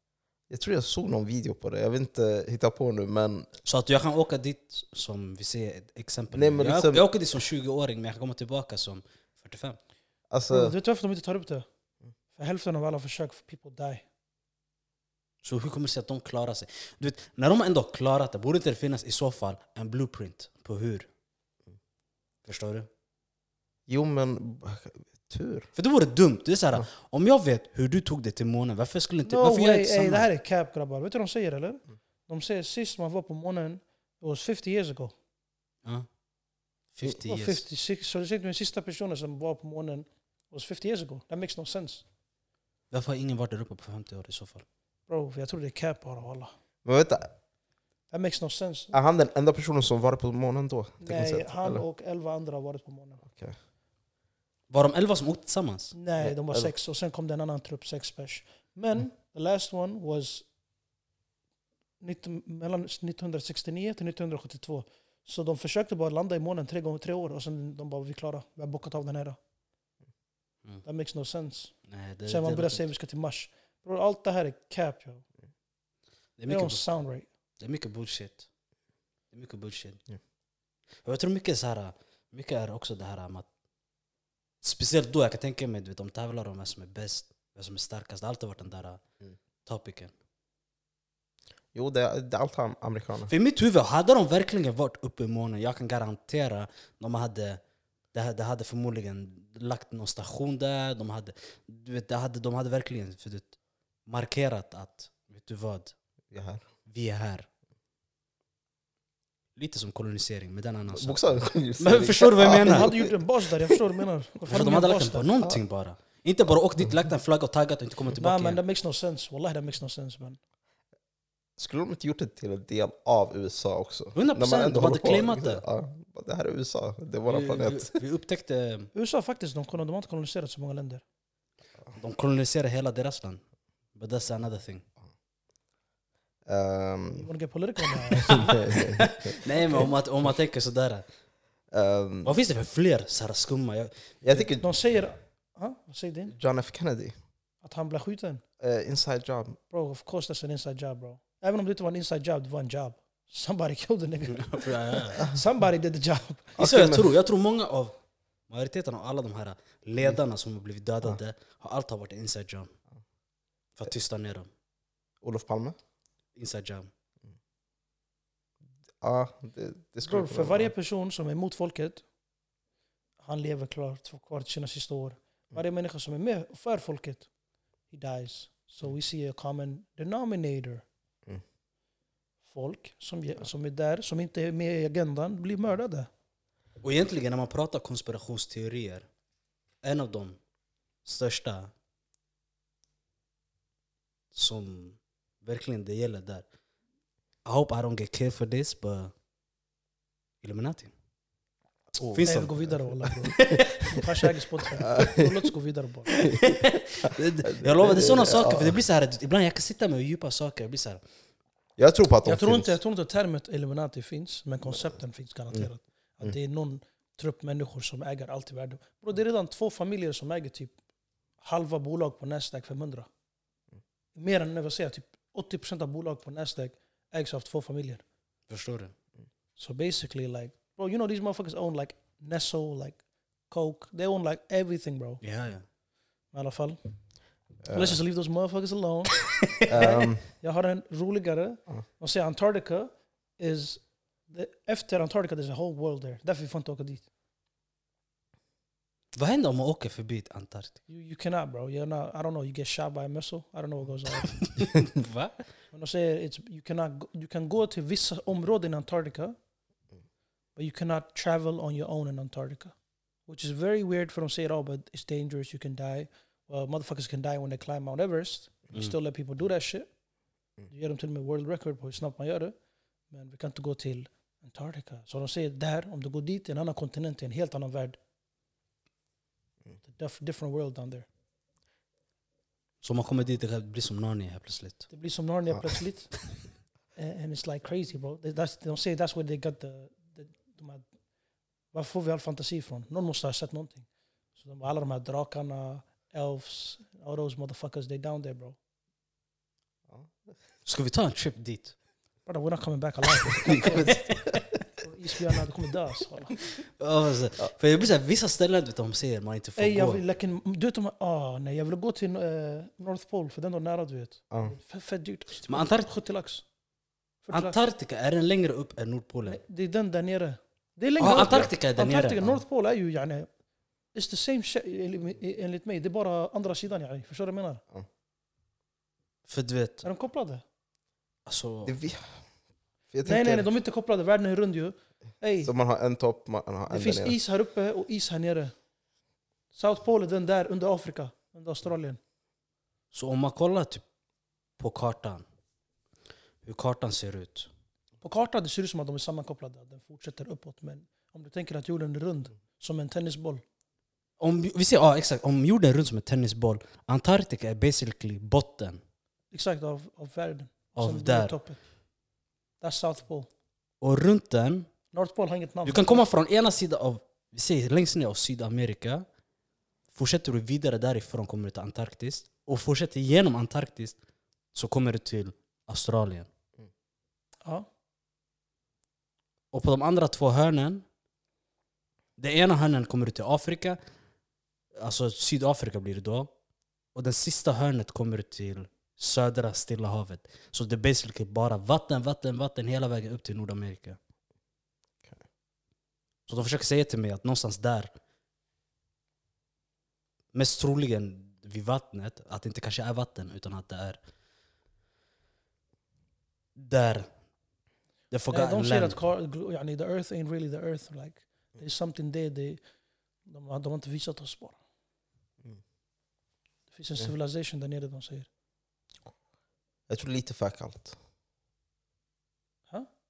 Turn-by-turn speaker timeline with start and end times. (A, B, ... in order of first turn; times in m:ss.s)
0:00.5-0:03.5 A
0:03.6-0:09.8 B
0:06.3-0:07.1 A
0:10.3-0:10.8 A
0:10.5-0:11.6 C
0:12.3-0:14.0 C
0:15.4-0:21.1 B
0:22.4-0:22.9 B
0:23.9-0:25.7 A
0:25.8-0:30.3 B
0:29.3-0:35.2 C
0:35.8-0:36.1 B
0:36.9-0:37.6 B
0:37.1-0:42.1 C
0:42.9-0:44.6 B
0:45.1-0:46.6 C
0:46.8-0:47.4 A
0:48.1-0:49.0 C
0:48.9-0:51.8 A
0:51.0-0:53.2 C
0:53.2-0:53.6 A
0:54.7-0:55.9 B
0:55.9-1:00.5 C
0:56.2-0:56.7 A
1:02.0-1:09.4 C
1:10.8-1:15.2 C
1:11.9-1:12.9 B
1:16.4-1:16.9 B
1:16.5-1:17.3 C
1:17.6-1:18.5 B
1:19.3-1:20.1 B
1:21.0-1:23.5 B
1:24.6-1:29.0 B
1:29.6-1:30.1 B
1:31.7-1:33.3 A
1:33.3-1:37.6 B
1:38.1-1:46.0 B
1:46.3-1:46.7 A
1:46.9-1:47.5 B
1:49.6-1:52.9 B
1:50.9-1:53.8 A
1:52.5-1:55.4 C
1:54.5-1:58.6 B
1:58.2-2:00.4 C
2:01.6-2:08.0 A
2:04.2-2:05.6 B
2:07.3-2:08.9 B
2:08.9-2:11.0 C
2:12.0-2:14.9 B
2:16.5-2:17.3 A
2:17.1-2:18.6 C
2:18.2-2:21.1 B
2:18.3-2:19.9 A
2:21.7-2:22.4 A
2:22.2-2:24.2 B
2:24.2-2:24.6 A
2:24.6-2:26.4 C
2:26.3-2:27.2 A
2:27.6-2:28.4 C
2:28.6-2:29.6 A
2:29.7-2:36.6 C
2:34.3-2:35.2 B
2:36.6-2:37.1 A
2:36.6-2:42.7 B
2:43.8-2:44.5 B
2:45.2-2:45.8 A
2:46.4-2:46.9 B
2:49.0-2:50.7 A
2:50.0-2:52.0 C
2:53.2-2:57.3 C
2:57.9-3:00.8 C
3:02.4-3:06.1 C
3:06.8-3:09.1 B
3:09.8-3:10.4 B
3:11.0-3:11.7 B
3:14.3-3:16.5 B
3:17.4-3:19.1 B
3:20.4-3:20.9 B
3:21.9-3:23.3 A
3:22.0-3:22.5 B
3:22.2-3:26.3 C
3:23.3-3:23.7 B
3:24.9-3:25.3 A
3:26.2-3:31.0 B
3:27.5-3:28.8 A
3:31.8-3:32.8 A
3:32.2-3:40.8 C
3:41.4-3:43.1 C
3:44.2-3:48.0 C
3:48.5-3:48.9 B
3:49.6-3:55.2 C
3:55.2-3:55.7 B
3:56.3-4:07.1 C
3:57.6-3:58.0 A
3:59.7-4:00.3 A
4:09.1-4:10.8 B
4:10.9-4:14.6 C
4:14.4-4:15.5 B
4:15.7-4:19.4 C
4:20.6-4:30.0 C
4:30.7-4:32.6 C
4:33.1-4:38.0 C
4:39.8-4:41.1 C
4:42.8-4:44.9 B
4:44.9-4:50.9 C
4:51.7-4:58.6 C
4:59.9-5:00.3 A
5:00.6-5:01.8 B
5:02.3-5:06.4 C
5:03.2-5:04.4 B
5:06.8-5:10.0 B
5:09.6-5:16.5 C
5:15.5-5:15.9 B
5:17.2-5:17.6 C
5:17.3-5:19.4 B
5:19.3-5:23.3 C
5:21.0-5:22.4 B
5:21.0-5:21.5 A
5:23.9-5:27.6 C
5:29.3-5:29.9 B
5:29.8-5:30.4 C
5:31.3-5:31.7 B
5:31.6-5:32.4 A
5:32.9-5:33.5 A
5:33.0-5:35.5 C
5:35.4-5:37.2 A
5:36.7-5:38.6 C
5:39.5-5:42.0 C
5:42.9-5:43.8 B
5:44.6-5:45.2 B
5:46.4-5:47.5 B
5:48.0-5:53.4 C
5:54.2-5:58.8 B
5:59.3-6:01.7 C
6:00.7-6:01.4 B
6:02.6-6:03.3 C
6:03.8-6:04.7 B
6:04.9-6:06.1 C
6:05.6-6:09.1 B
6:09.9-6:14.0 B
6:14.5-6:16.3 B
6:19.5-6:20.8 B
6:22.2-6:23.8 B
6:24.8-6:26.3 B
6:26.9-6:34.0 B
6:36.3-6:37.9 B
6:40.3-6:44.0 B
6:46.6-6:47.2 B
6:48.1-6:49.0 B
6:48.3-6:54.6 C
6:56.7-6:58.3 C
6:59.9-7:01.0 A